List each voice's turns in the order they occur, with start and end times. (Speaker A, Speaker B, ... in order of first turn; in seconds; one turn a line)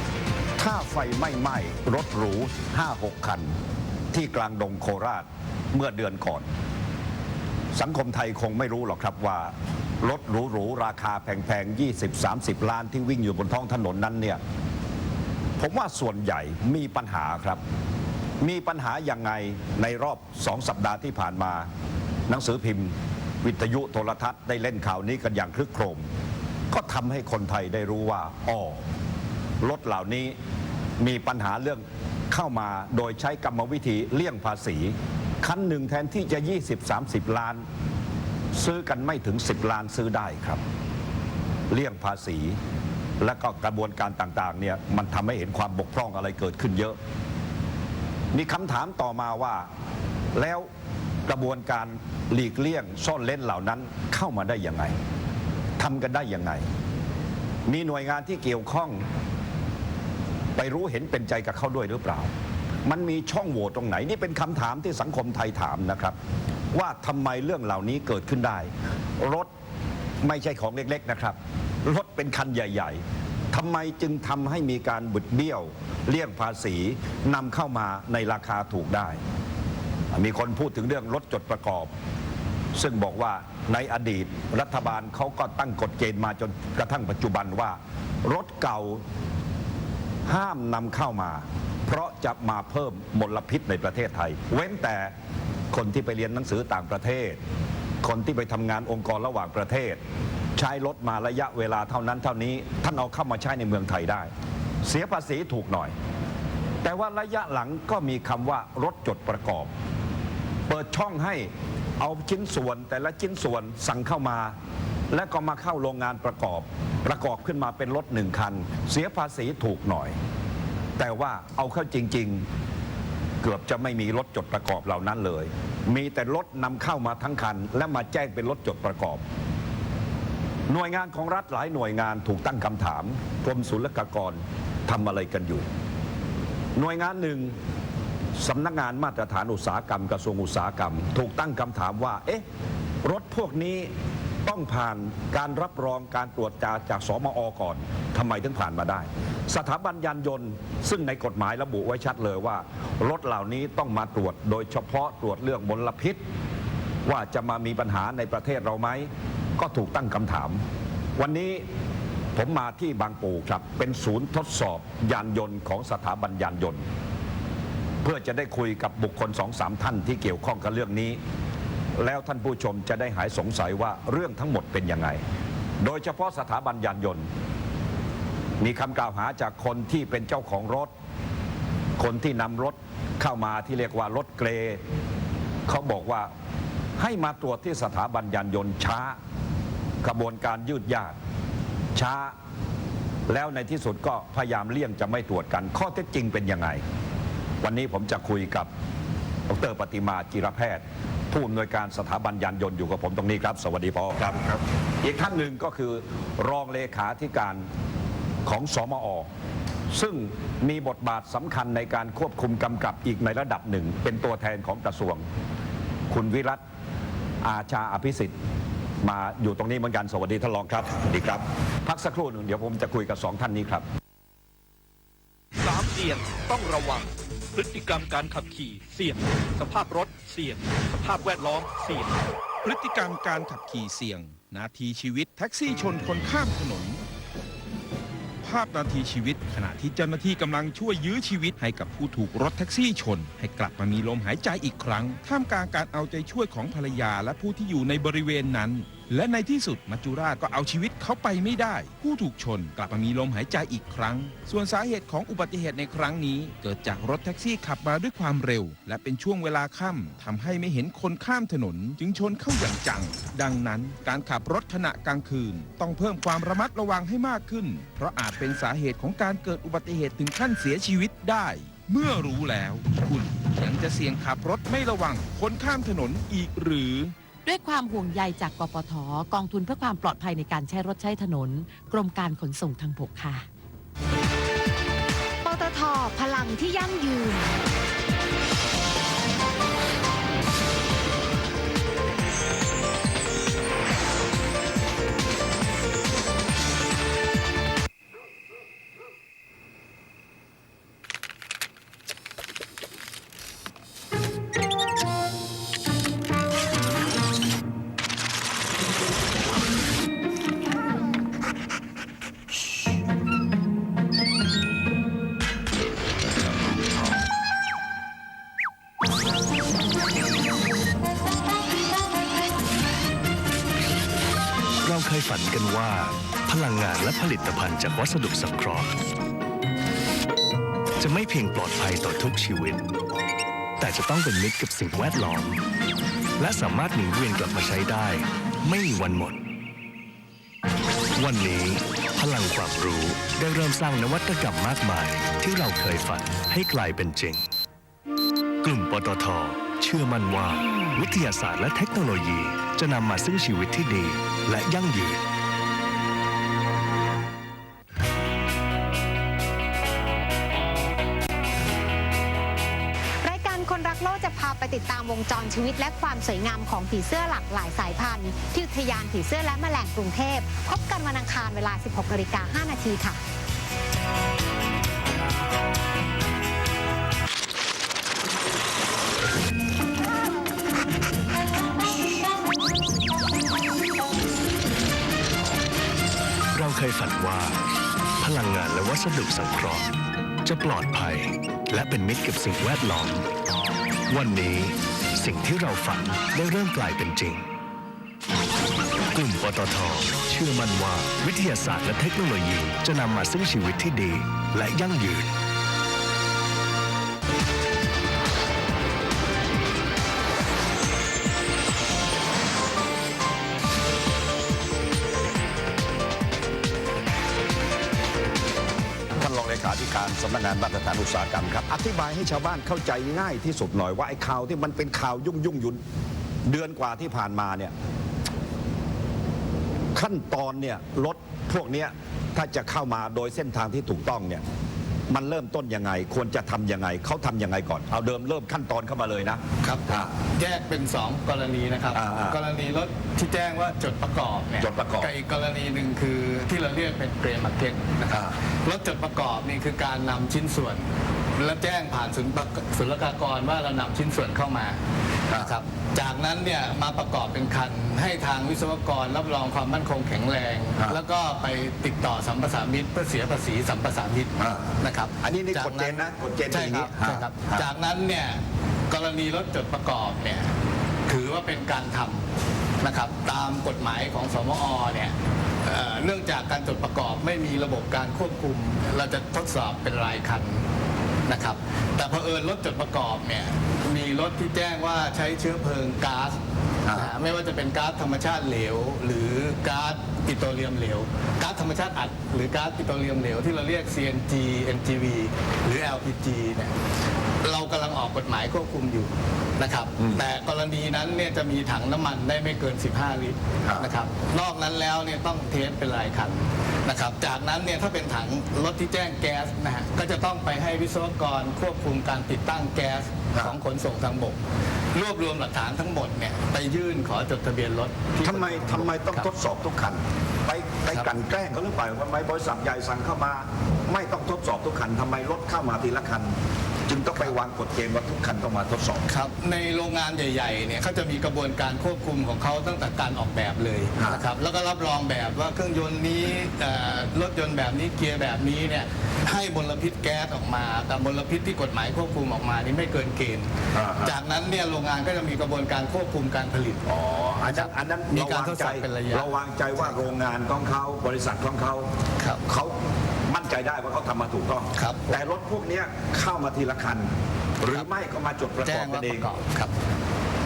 Speaker A: 0.6-3.5
Speaker A: 4.1-6.5
Speaker A: 7.7-14.4
Speaker A: 15.6-17.6
Speaker A: 18.4-21.7
Speaker A: 22.3-26.1
Speaker A: 26.7-28.8
Speaker A: 29.6-30.4
Speaker A: 31.0-37.6
Speaker A: 38.5-40.6
Speaker A: 41.7-42.6
Speaker A: 43.2-47.0
Speaker A: 48.3-49.7
Speaker A: 50.3-50.7
Speaker A: 51.3-55.0
Speaker A: 55.8-56.7
Speaker A: 57.7-59.1
Speaker A: 60.5-62.3
Speaker A: 62.8-66.2
Speaker A: 66.7-69.5
Speaker A: 70.2-79.2
Speaker A: 80.1-81.9
Speaker A: 82.7-89.0
Speaker A: 90.2-95.1
Speaker A: 95.7-97.4
Speaker A: 98.0-100.0
Speaker A: 100.5-104.3
Speaker A: 104.8-105.9
Speaker A: 106.8-109.7
Speaker A: 110.7-114.5
Speaker A: 115.1-120.2
Speaker A: 121.0-122.5
Speaker A: 123.4-129.2
Speaker A: 130.7-135.7
Speaker A: 136.8-137.6
Speaker A: 138.3-142.4
Speaker A: 143.0-143.9
Speaker A: 144.4-156.2
Speaker A: 157.0-160.6
Speaker A: 161.2-161.7
Speaker A: 162.3-166.8
Speaker A: 168.0-171.2
Speaker A: 172.0-175.2
Speaker A: 175.8-177.3
Speaker A: 178.6-180.9
Speaker A: 182.0-184.8
Speaker A: 185.7-186.3
Speaker A: 187.0-189.2
Speaker A: 190.0-191.2
Speaker A: 191.9-192.3
Speaker A: 193.3-196.8
Speaker A: 197.6-198.7
Speaker A: 199.5-204.4
Speaker A: 205.0-207.7
Speaker A: 208.4-209.3
Speaker A: 209.9-215.2
Speaker A: 216.1-216.6
Speaker A: 217.4-218.3
Speaker A: 219.0-223.8
Speaker B: 225.6-232.2
Speaker C: 232.6-237.0
Speaker C: 238.4-277.1
Speaker D: 277.4-283.5
Speaker D: 285.4-287.5
Speaker E: 324.8-328.9
Speaker E: 331.0-332.8
Speaker E: 333.8-335.6
Speaker E: 336.4-339.4
Speaker E: 341.2-347.4
Speaker E: 348.6-355.2
Speaker F: 363.2-373.2
Speaker E: 386.5-387.6
Speaker E: 388.2-389.9
Speaker E: 390.4-393.3
Speaker E: 394.1-397.4
Speaker E: 399.1-405.3
Speaker A: 419.1-425.8
Speaker A: 426.4-427.7
Speaker A: 429.9-434.4
Speaker A: 435.1-440.1
Speaker G: 439.6-454.8
Speaker A: 441.9-442.4
Speaker A: 444.6-445.1
Speaker A: 448.1-448.3
Speaker G: 455.3-470.5
Speaker A: 460.8-461.0
Speaker A: 464.4-467.7
Speaker G: 471.1-472.2
Speaker G: 472.8-480.6
Speaker G: 481.3-486.4
Speaker A: 486.8-487.1
Speaker G: 486.9-496.7
Speaker G: 497.4-514.4
Speaker A: 500.0-500.2
Speaker A: 503.6-503.9
Speaker A: 513.3-513.6
Speaker G: 514.9-519.3
Speaker A: 518.2-526.3
Speaker A: 526.9-529.1
Speaker G: 529.1-546.8
Speaker A: 534.0-534.2
Speaker A: 543.7-544.1
Speaker A: 546.8-551.9
Speaker G: 547.5-550.0
Speaker A: 552.4-557.1
Speaker G: 554.7-555.2
Speaker A: 557.6-559.2
Speaker G: 558.6-559.7